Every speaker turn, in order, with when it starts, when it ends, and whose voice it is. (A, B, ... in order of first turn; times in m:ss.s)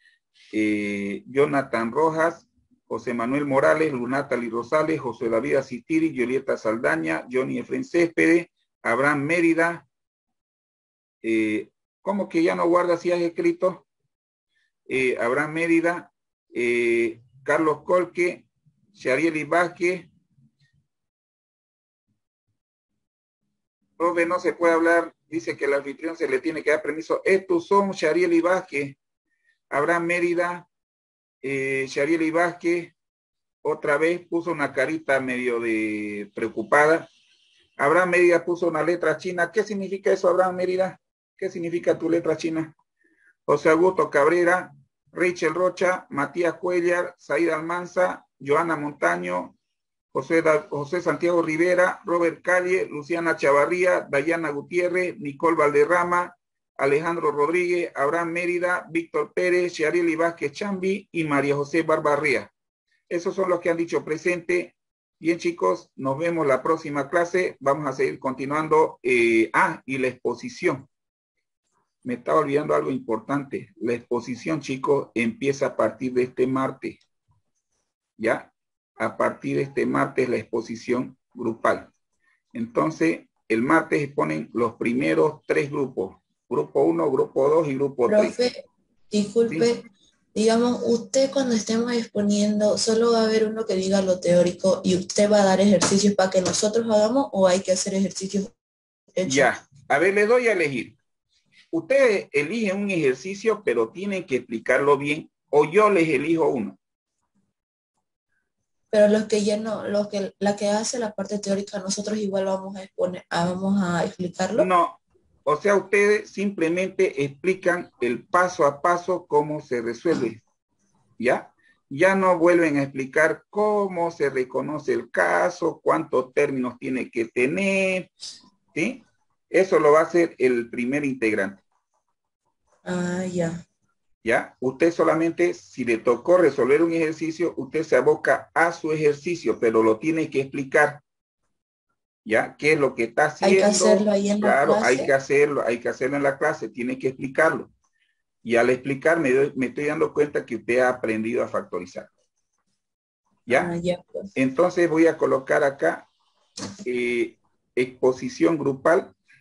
0:00.5-0:09.8 A
0:11.2-0:13.8 A
0:14.9-0:20.1 A
0:24.0-0:29.0 A
0:29.7-0:30.6 A
0:31.4-0:32.9 A
0:33.6-0:37.1 A
0:37.8-0:42.7 A
0:43.5-0:49.5 A
0:50.1-1:02.5 A
1:03.1-1:10.9 A
1:12.0-1:17.0 A
1:18.2-1:21.9 A
1:22.5-1:28.4 A
1:28.0-1:29.8 B
1:30.3-1:38.5 B
1:39.2-1:39.5 B
1:39.2-1:40.9 A
1:41.7-1:46.8 A
1:48.9-1:54.7 B
1:54.6-2:00.4 A
2:01.2-2:08.1 A
2:08.7-2:11.6 A
2:12.8-2:13.6 B
2:14.2-2:21.0 A
2:22.2-2:27.7 A
2:23.4-2:25.1 B
2:28.4-2:32.1 A
2:33.5-2:33.7 A
2:33.5-2:34.3 B
2:34.3-2:36.0 A
2:36.8-2:39.1 A